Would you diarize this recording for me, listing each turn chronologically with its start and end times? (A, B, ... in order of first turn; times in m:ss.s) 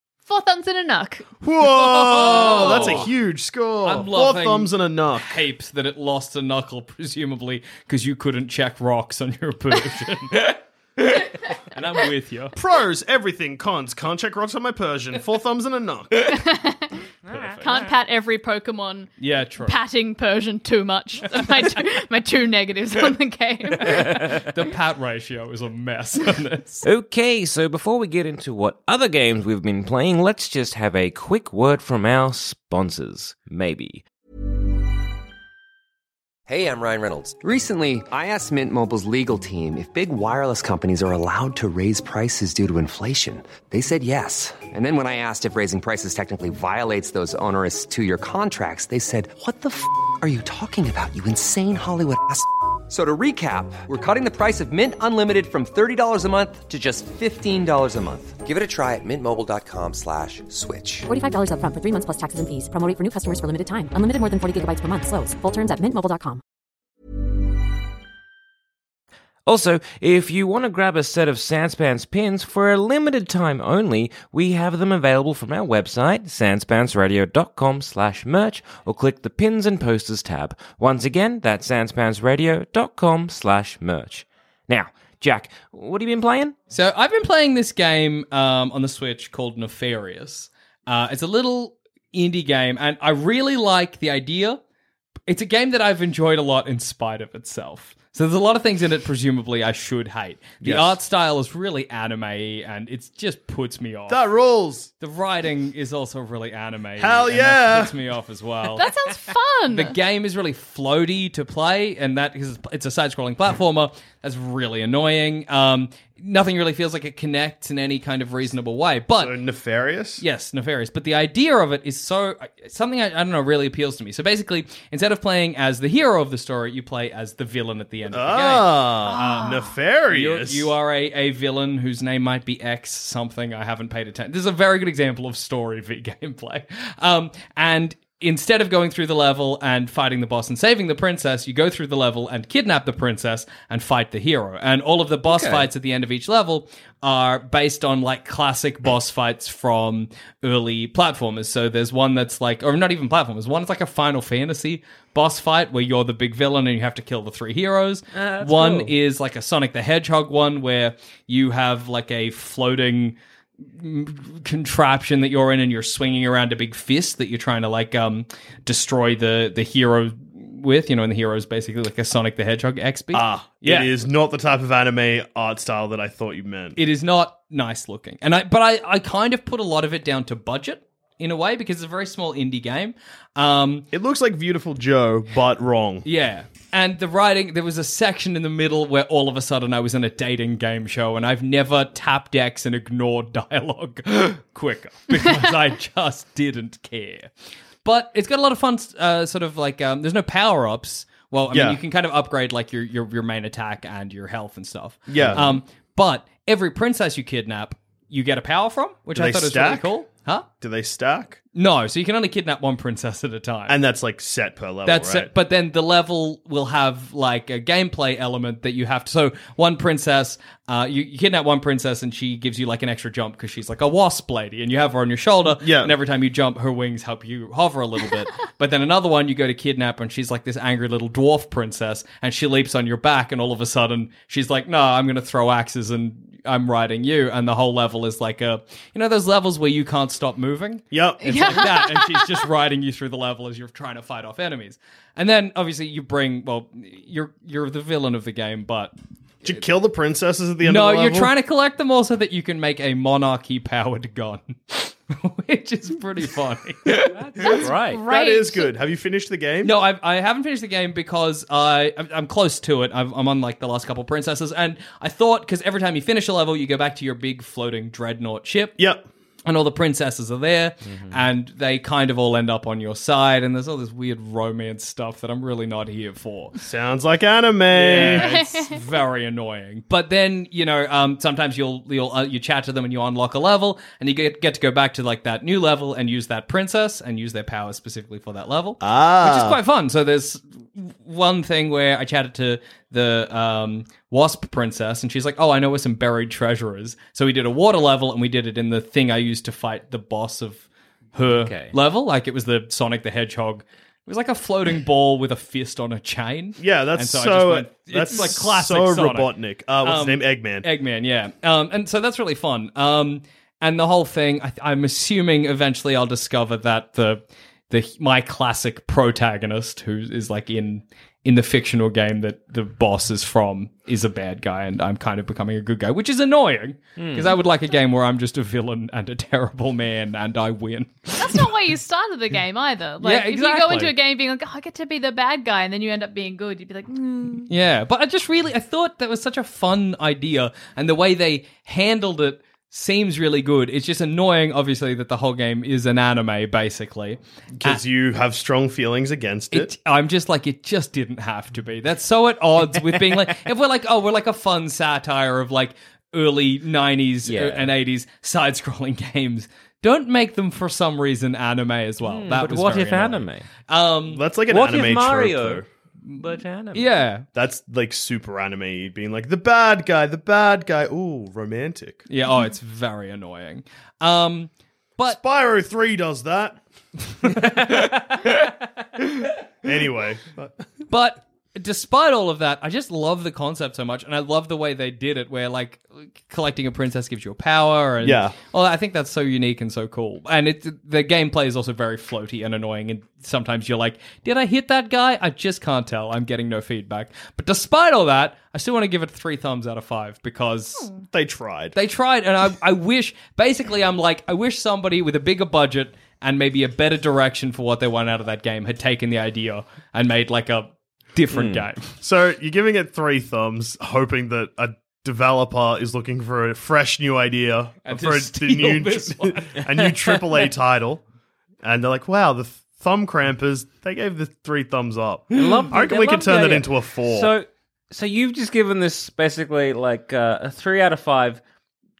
0:00.2-0:03.1 A
0:01.4-0:05.4 B
0:02.1-0:03.1 C
0:03.8-0:12.5 C
0:12.5-0:16.3 B
0:16.3-0:17.0 A
0:17.2-0:17.9 D
0:17.3-0:17.7 C
0:17.6-0:24.3 A
0:19.2-0:19.8 C
0:23.8-0:26.8 C
0:26.8-0:34.0 D
0:36.5-0:59.1 E
0:59.7-1:01.1 E
1:01.1-1:06.4 F
1:09.4-1:26.5 D
1:26.7-1:34.6 C
1:35.3-1:44.2 C
1:40.6-1:41.0 B
1:44.1-1:44.9 B
1:45.0-1:48.8 C
1:47.0-1:47.9 B
1:48.8-1:49.9 A
1:49.7-1:59.3 C
1:59.2-2:00.2 B
2:00.2-2:09.6 C
2:08.1-2:10.7 B
2:09.1-2:09.7 A
2:10.1-2:43.2 C
2:25.3-2:25.7 D
2:38.1-2:38.9 D
2:43.7-2:53.9 C
2:53.1-2:56.8 B
2:56.8-3:03.9 C
3:03.9-3:06.0 B
3:06.0-3:17.3 C
3:17.8-3:30.5 C
3:21.5-3:21.8 B
3:25.1-3:25.6 B
3:29.1-3:29.9 B
3:30.6-3:31.4 B
3:31.5-3:33.8 C
3:33.7-3:35.3 B
3:34.8-4:08.9 C
3:45.6-3:45.9 B
4:00.9-4:01.8 B
4:01.2-4:02.3 A
4:09.4-4:11.3 B
4:10.6-4:17.2 C
4:17.1-4:18.0 D
4:17.4-4:18.7 A
4:17.9-4:19.8 B
4:19.6-4:28.8 C
4:28.8-4:29.0 B
4:29.4-4:36.5 C
4:30.9-4:31.2 D
4:36.6-4:38.4 B
4:37.7-5:31.5 C
4:38.2-4:38.8 A
4:48.8-4:49.6 B
5:01.2-5:01.7 D
5:06.6-5:10.7 B
5:27.0-5:27.4 D
5:31.2-5:37.5 A
5:33.0-5:33.9 C
5:37.5-5:47.8 C
5:47.6-5:49.7 B
5:49.5-6:04.2 C
5:53.0-5:53.2 D
5:57.2-5:57.7 D
6:02.0-6:03.5 D
6:04.1-6:05.6 B
6:04.5-6:05.6 D
6:06.1-6:06.9 D
6:06.7-6:07.3 C
6:07.3-6:12.0 B
6:12.1-6:15.2 C
6:15.1-6:16.6 B
6:17.2-6:18.4 C
6:19.6-6:20.7 B
6:20.9-6:41.0 C
6:28.0-6:28.4 B
6:41.1-6:41.8 B
6:41.7-6:51.9 C
6:51.3-6:51.6 D
6:52.0-7:01.0 B
6:57.8-6:59.6 C
7:01.6-7:07.3 B
7:05.3-7:11.4 D